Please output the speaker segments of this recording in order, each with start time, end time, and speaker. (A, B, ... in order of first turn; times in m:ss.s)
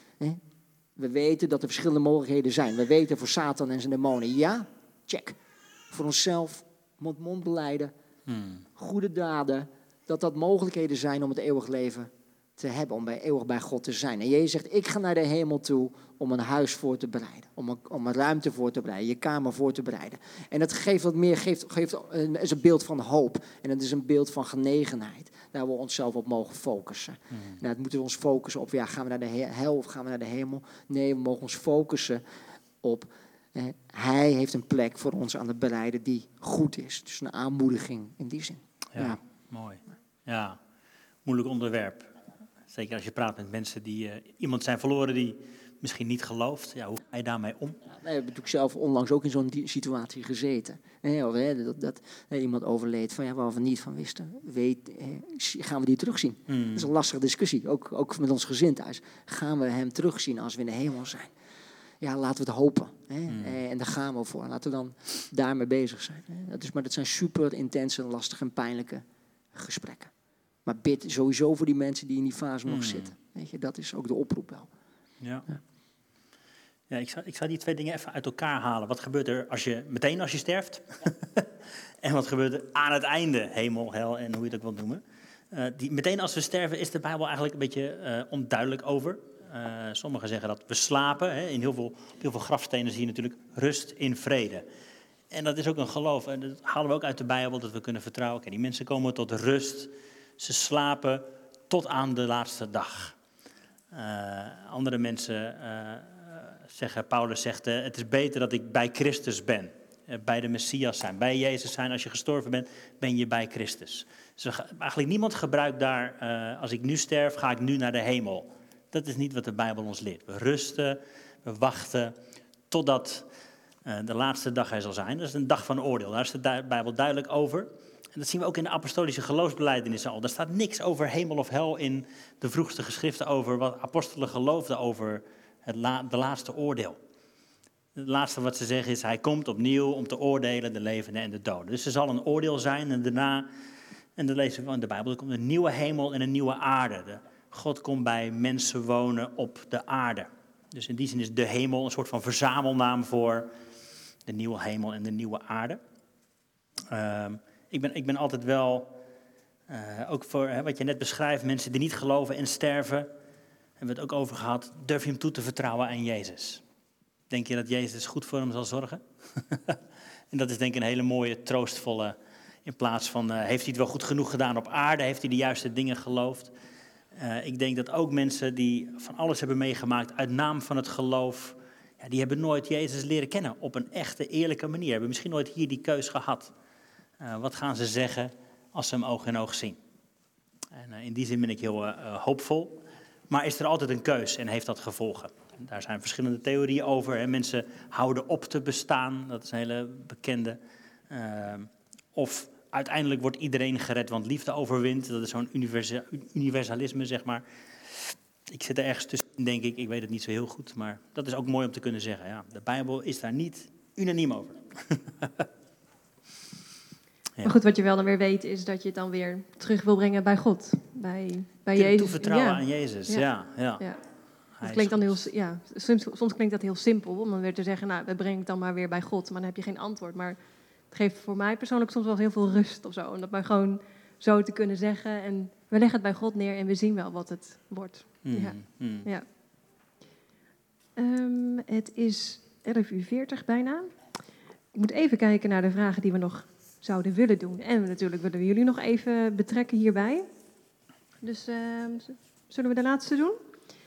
0:01.0-0:05.4 A
0:05.9-0:07.9 A
0:08.3-0:08.6 B
0:08.8-0:32.2 A
0:32.8-0:39.2 A
0:38.9-0:40.6 B
0:41.2-0:42.1 B
0:42.7-0:47.8 B
0:47.8-1:01.3 A
0:56.5-0:56.9 B
1:02.0-1:10.1 A
1:03.3-1:03.6 B
1:10.6-1:14.7 A
1:12.7-1:13.1 B
1:15.2-1:15.5 B
1:16.9-1:21.5 B
1:22.0-1:34.6 B
1:35.3-1:43.1 B
1:43.9-2:02.1 B
2:02.7-2:03.3 B
2:03.8-2:17.0 B
2:17.9-2:23.5 B
2:24.2-2:33.5 B
2:34.2-2:35.8 B
2:36.9-2:38.9 B
2:39.7-2:43.1 B
2:43.8-2:46.6 B
2:47.3-2:49.8 B
2:50.3-2:56.5 B
2:57.1-3:06.5 B
3:07.2-3:09.8 B
3:10.7-3:20.6 B
3:21.1-3:35.5 B
3:37.4-3:43.2 C
3:41.8-3:43.8 B
3:44.6-3:45.2 B
3:44.6-3:50.4 C
3:50.9-3:59.2 C
3:58.2-3:59.1 B
4:01.0-4:03.9 C
4:04.7-4:10.2 C
4:11.2-4:13.4 C